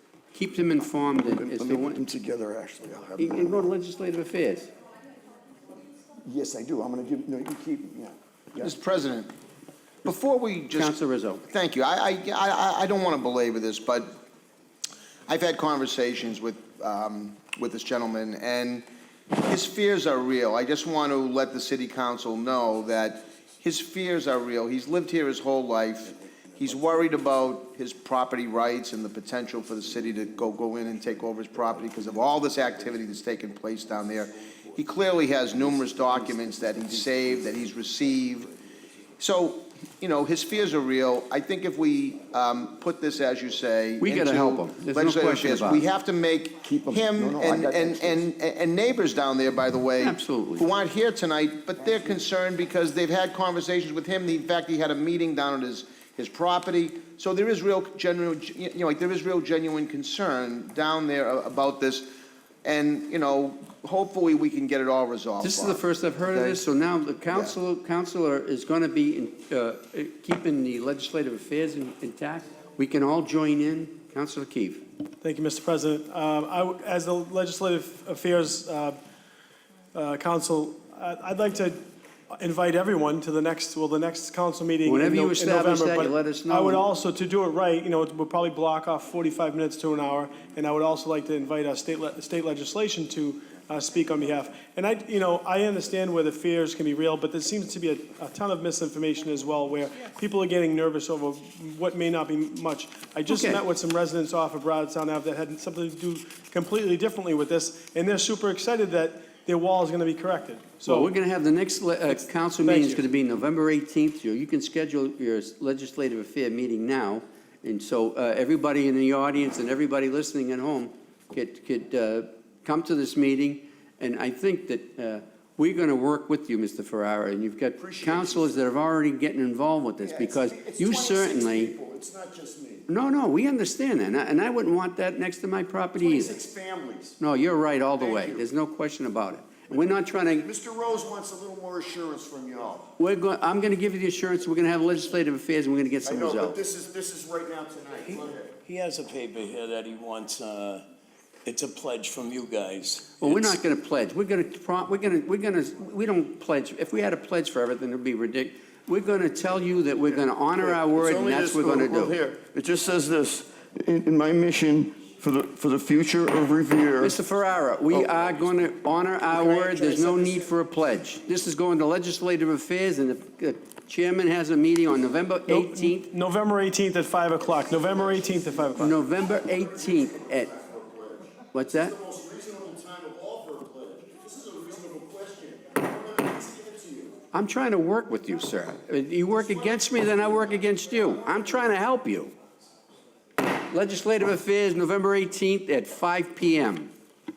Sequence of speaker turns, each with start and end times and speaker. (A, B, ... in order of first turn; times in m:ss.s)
0:00.3-0:02.0 A
0:01.0-0:03.7 B
0:03.2-0:04.7 A
0:06.2-0:08.7 B
0:08.6-0:09.3 C
0:10.0-0:10.9 C
0:10.7-0:11.4 A
0:11.5-0:14.1 C
0:15.3-0:18.8 C
0:19.4-0:38.5 C
0:39.2-1:02.1 C
0:44.0-0:45.8 A
0:46.6-0:48.3 B
0:50.0-0:50.6 A
1:02.6-1:06.6 C
1:05.4-1:14.8 A
1:07.3-1:07.5 C
1:15.2-1:19.0 D
1:19.9-1:21.8 D
1:22.3-1:51.1 D
1:24.8-1:26.8 A
1:43.3-1:43.6 A
1:50.8-2:11.7 A
1:52.6-1:53.0 D
2:07.8-2:08.6 B
2:10.0-2:12.9 B
2:12.9-2:16.4 A
2:16.0-2:17.2 B
2:17.2-2:20.5 A
2:18.0-2:18.5 B
2:19.7-2:22.9 B
2:23.0-2:26.6 A
2:26.0-2:28.5 B
2:28.1-2:30.8 E
2:31.4-2:33.5 E
2:33.2-2:42.1 A
2:40.6-2:47.2 B
2:47.0-2:56.1 A
2:49.3-2:50.5 B
2:55.5-2:59.0 D
2:58.8-3:00.5 A
2:59.2-3:07.2 B
3:01.5-3:02.0 A
3:07.3-3:12.3 A
3:09.3-3:10.5 B
3:11.1-3:11.4 B
3:13.7-3:16.9 A